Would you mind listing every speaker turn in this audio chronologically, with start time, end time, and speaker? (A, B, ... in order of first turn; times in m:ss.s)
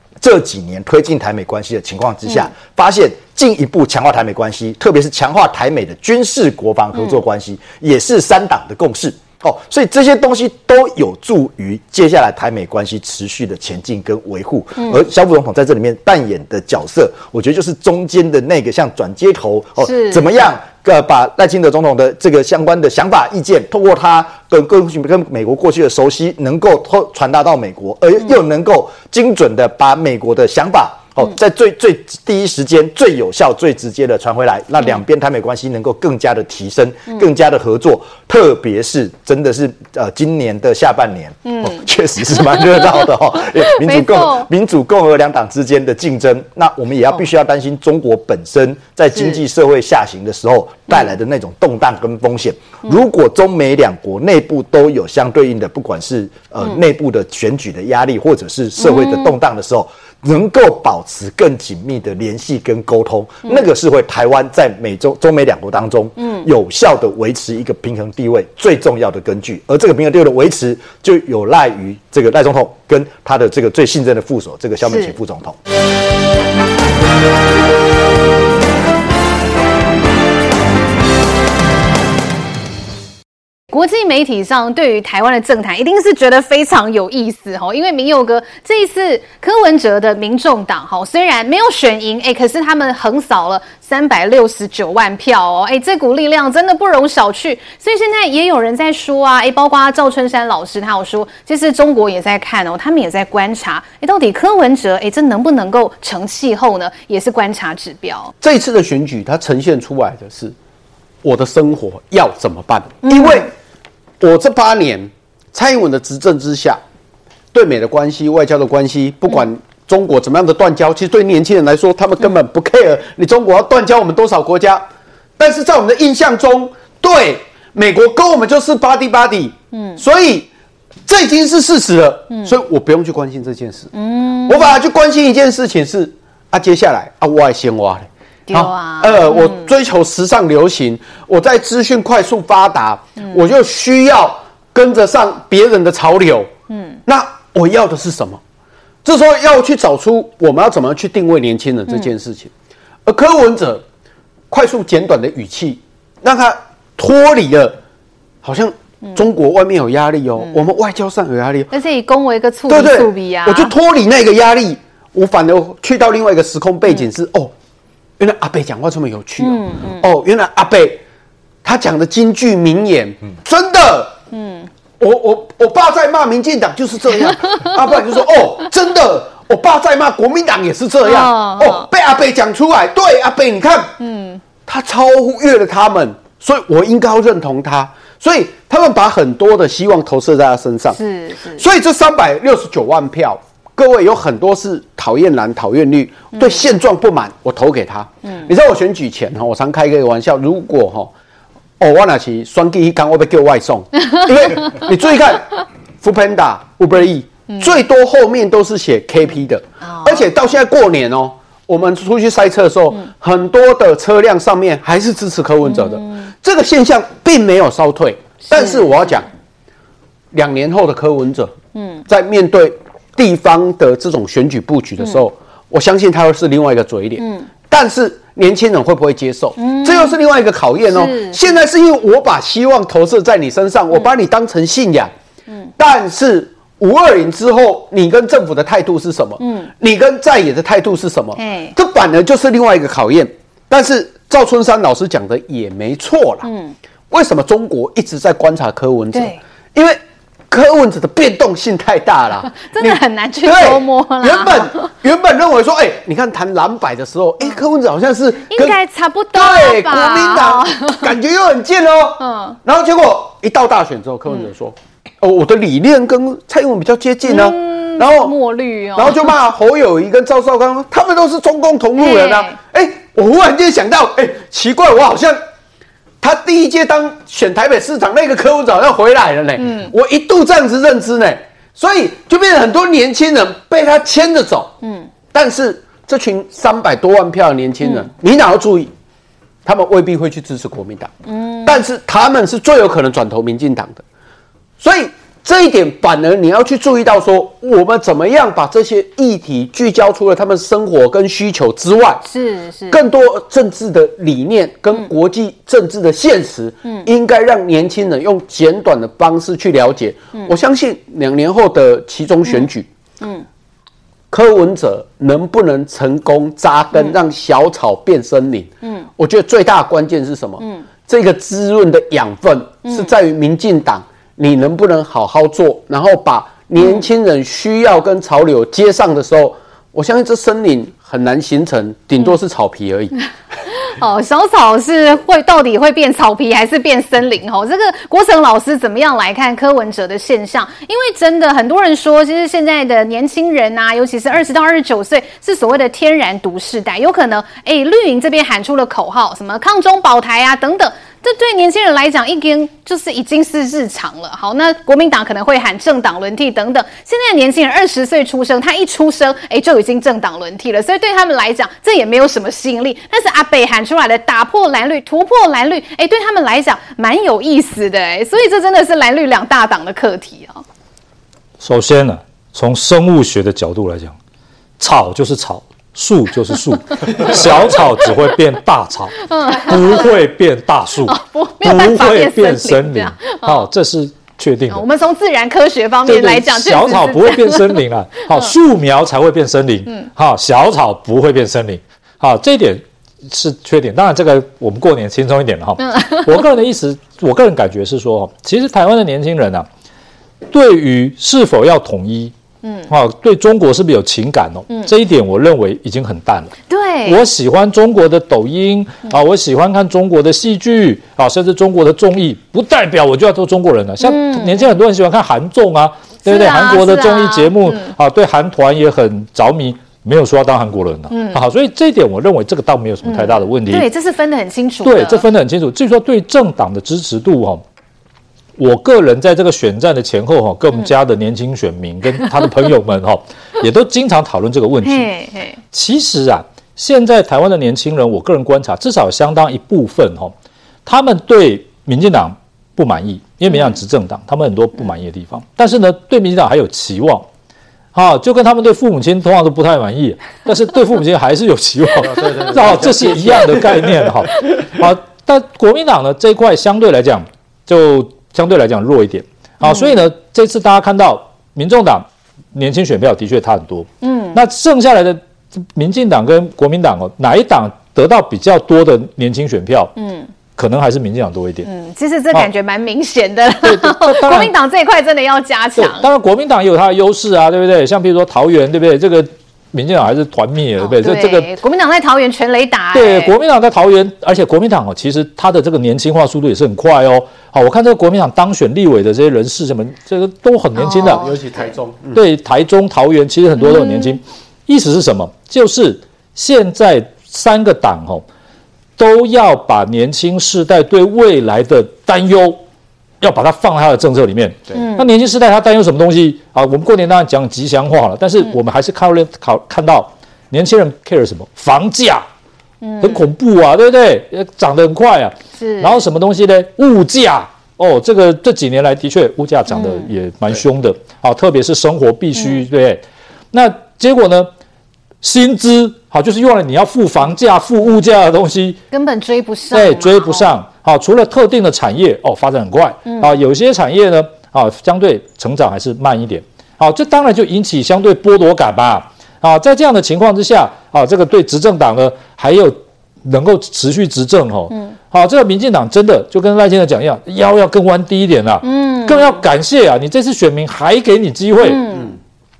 0:00.2-1:15.6 A
0:19.8-0:20.2 B
0:41.4-0:44.5 B
0:49.1-0:49.4 B
0:58.8-0:59.3 B
1:14.9-1:15.2 B
1:23.7-1:48.3 B
1:48.4-1:50.5 C
1:51.2-1:53.5 C
1:53.0-1:53.4 B
1:54.2-1:56.8 C
1:57.5-2:04.9 C
2:05.4-2:10.5 C
2:09.7-2:10.0 B
2:11.1-2:13.9 C
2:13.9-2:14.8 B
2:14.4-2:26.5 C
2:18.5-2:19.6 B
2:26.7-2:27.0 B
2:27.1-2:28.4 C
2:29.0-2:32.5 C
2:33.0-2:33.8 C
2:34.5-2:37.8 C
2:38.4-2:41.7 C
2:41.7-2:43.7 B
2:42.7-2:47.5 C
2:48.2-2:51.0 C
2:49.4-2:50.1 B
2:51.6-2:54.2 C
2:54.3-2:54.7 B
2:55.0-3:04.0 C
3:01.0-3:01.9 B
3:04.0-3:04.4 B
3:04.6-3:11.0 C
3:10.9-3:11.6 B
3:11.6-3:21.1 C
3:16.4-3:16.6 B
3:18.2-3:18.5 B
3:21.8-3:39.3 C
3:29.8-3:30.3 B
3:35.7-3:36.2 B
3:38.5-3:39.0 B
3:40.3-3:41.5 C
3:41.7-3:42.0 B
3:42.1-3:55.1 C
3:47.2-3:47.5 B
3:49.6-3:50.2 B
3:50.9-3:51.6 B
3:55.8-4:06.5 C
3:59.4-3:59.7 B
4:01.4-4:01.7 B
4:06.4-4:06.7 B
4:07.1-4:10.0 C
4:09.1-4:09.4 B
4:10.5-4:18.8 C
4:12.6-4:14.8 B
4:18.5-4:21.1 B
4:19.3-4:28.4 C
4:22.2-4:22.6 B
4:27.2-4:29.3 B
4:28.9-4:35.4 C
4:32.0-4:32.5 B
4:36.2-4:44.7 C
4:39.6-4:39.9 B
4:44.8-4:45.1 B
4:45.3-4:48.9 C
4:49.6-4:51.1 C
4:51.3-4:51.8 B
4:51.6-4:54.0 C
4:54.8-5:02.2 C
5:02.2-5:03.0 B
5:02.9-5:12.9 C
5:13.2-5:13.4 B
5:14.3-5:33.2 C
5:22.8-5:23.1 B
5:26.8-5:27.1 B
5:33.7-6:10.6 B
6:11.6-6:14.1 D
6:14.8-6:24.8 D
6:17.2-6:17.6 B
6:19.3-6:20.2 B
6:21.0-6:23.7 B
6:24.7-6:28.5 B
6:26.0-6:39.7 D
6:35.8-6:36.5 B
6:40.5-6:42.3 D
6:42.6-6:42.9 B
6:42.9-6:46.5 D
6:46.7-6:47.2 B
6:47.0-7:03.9 D
6:54.0-6:54.8 B
6:56.2-6:57.9 B
7:01.1-7:01.4 B
7:03.0-7:05.3 B
7:04.8-7:07.6 D
7:08.6-7:15.0 D
7:14.8-7:15.6 B
7:15.7-7:20.3 D
7:20.8-7:27.2 D
7:23.5-7:23.8 B
7:27.9-7:45.2 D
7:32.0-7:34.1 C
7:39.6-7:40.0 B
7:44.0-7:44.4 B
7:45.7-7:49.9 D
7:50.0-7:50.3 B
7:50.5-7:51.7 D
7:51.6-7:56.0 B
7:53.6-7:54.5 D
7:55.8-8:01.5 D
8:00.8-8:03.3 B
8:02.9-8:11.2 D
8:10.8-8:11.4 B
8:11.0-8:12.2 C
8:12.1-8:18.2 D
8:13.6-8:14.2 B
8:19.0-8:22.6 D
8:23.2-8:32.2 D
8:24.7-8:25.1 B
8:32.8-8:33.2 B
8:33.0-8:44.5 D
8:35.5-8:36.0 B
8:39.7-8:40.1 B
8:42.3-8:42.6 B
8:45.2-8:48.8 D
8:48.9-8:50.5 B
8:49.7-9:11.9 D
8:53.1-8:53.4 B
9:08.6-9:09.4 B
9:11.6-9:12.2 B